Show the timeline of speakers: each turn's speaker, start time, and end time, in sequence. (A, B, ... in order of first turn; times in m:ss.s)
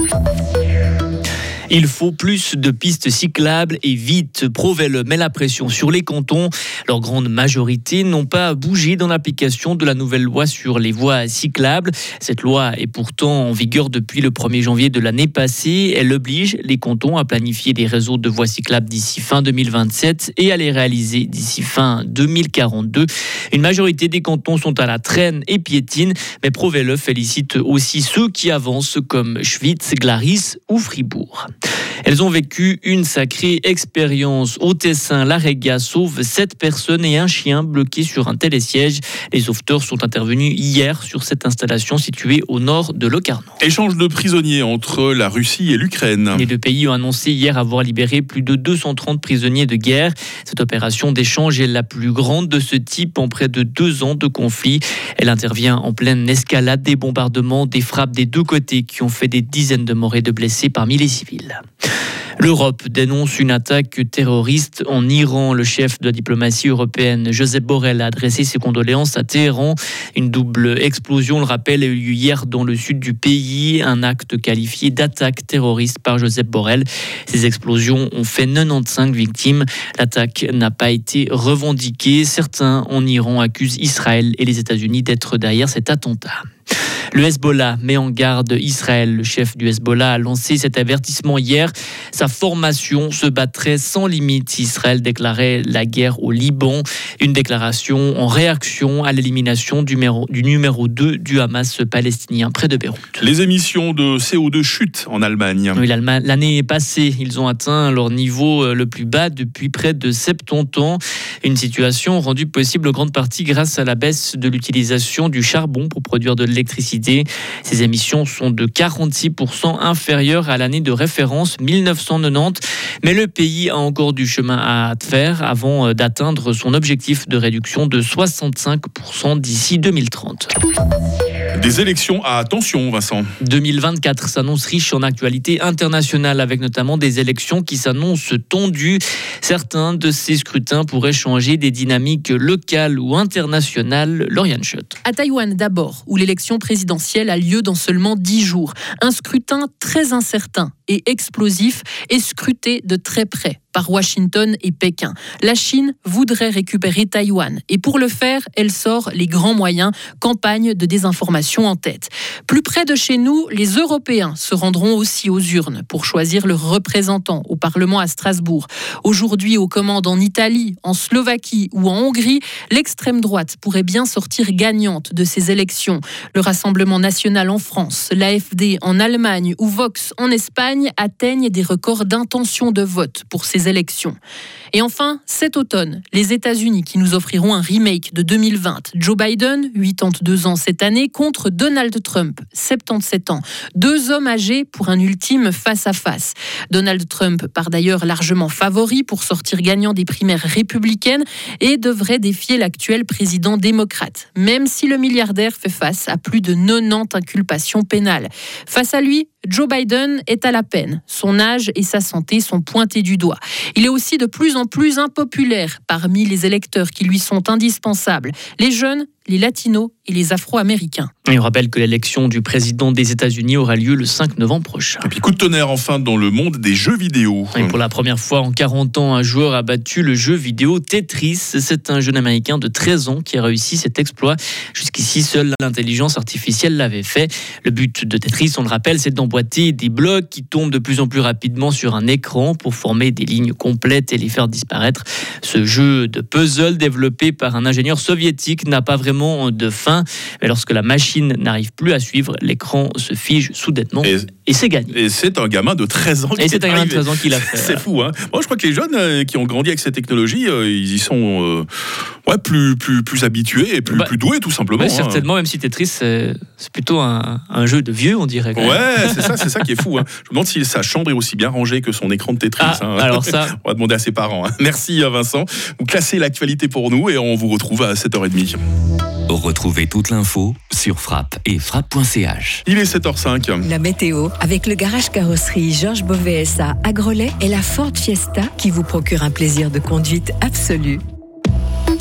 0:01.7-0:31.5 A
0:32.0-0:43.6 A
0:43.6-0:46.5 B
0:46.4-1:01.6 A
1:02.4-1:26.4 A
1:27.1-1:43.2 A
1:43.2-1:45.8 B
1:45.8-2:10.5 A
2:11.6-2:13.3 B
2:13.4-2:25.0 A
2:25.0-3:04.2 C
3:04.7-3:41.1 C
3:41.3-3:45.1 A
3:45.0-3:47.8 B
3:47.6-4:15.0 A
4:14.0-4:14.3 B
4:14.9-4:21.7 B
4:16.4-4:17.8 A
4:22.3-4:25.2 B
4:24.8-4:29.4 A
4:28.6-4:38.6 B
4:32.6-4:33.6 A
4:39.3-4:42.6 D
4:42.7-4:43.6 B
4:43.6-4:51.0 E